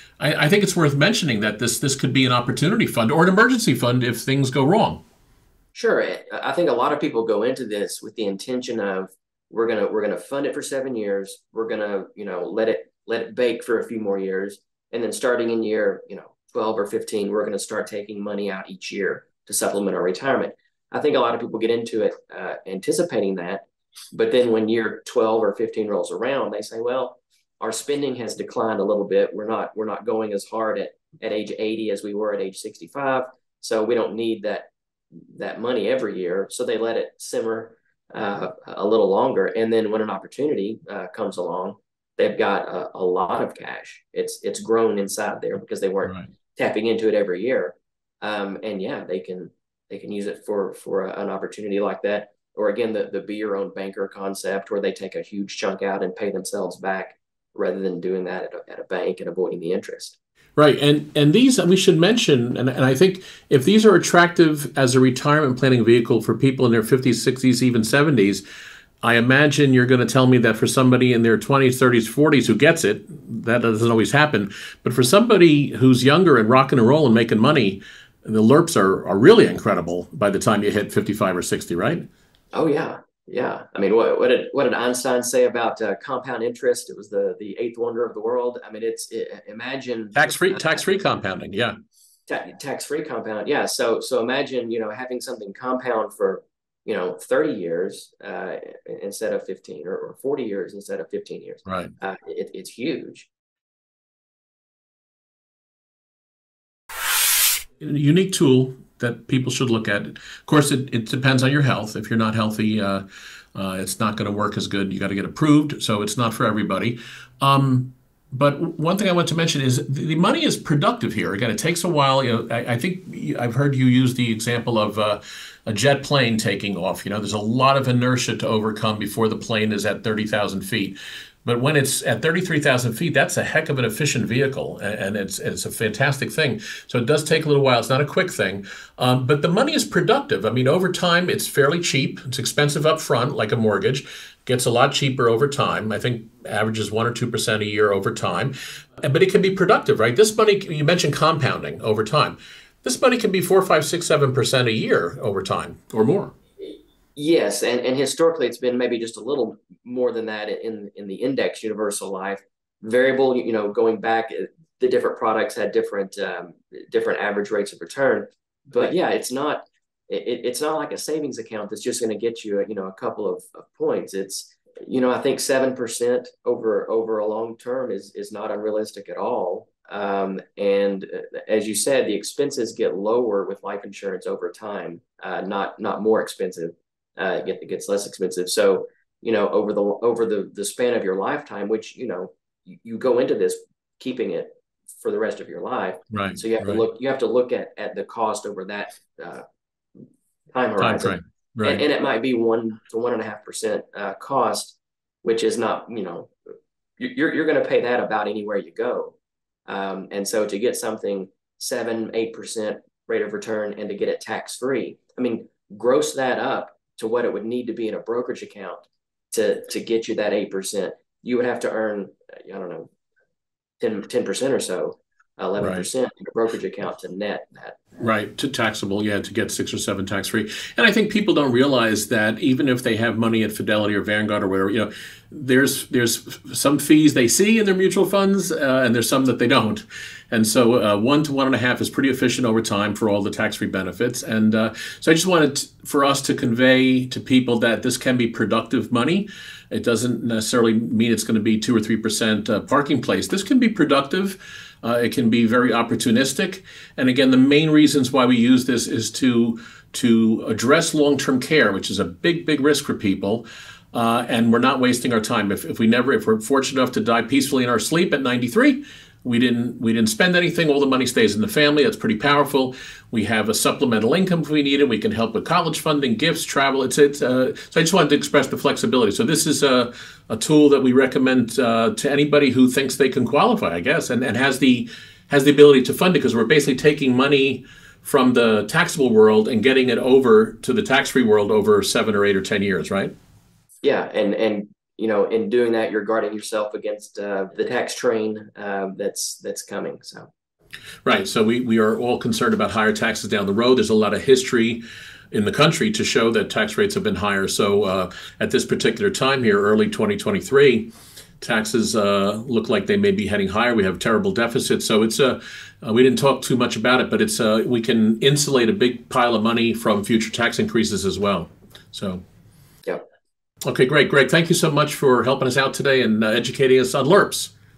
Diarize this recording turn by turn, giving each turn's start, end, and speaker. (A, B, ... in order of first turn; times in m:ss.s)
0:00.2-0:05.0 A
0:05.7-1:00.1 B
1:00.6-1:08.4 A
1:09.0-1:22.0 A
1:22.5-1:31.0 B
1:30.2-1:31.7 A
1:32.3-1:43.3 B
1:41.6-1:41.9 A
1:47.8-1:53.0 A
1:53.5-2:36.3 A
2:36.6-3:19.4 B
3:16.1-3:16.8 A
3:20.5-3:26.3 B
3:20.8-3:21.8 A
3:27.0-3:29.1 B
3:29.7-3:42.9 B
3:43.8-3:47.8 B
3:45.6-3:45.8 A
3:48.0-4:53.1 A
4:53.8-5:00.3 B
5:01.0-5:10.9 A
5:11.4-5:22.2 A
5:23.6-5:27.5 A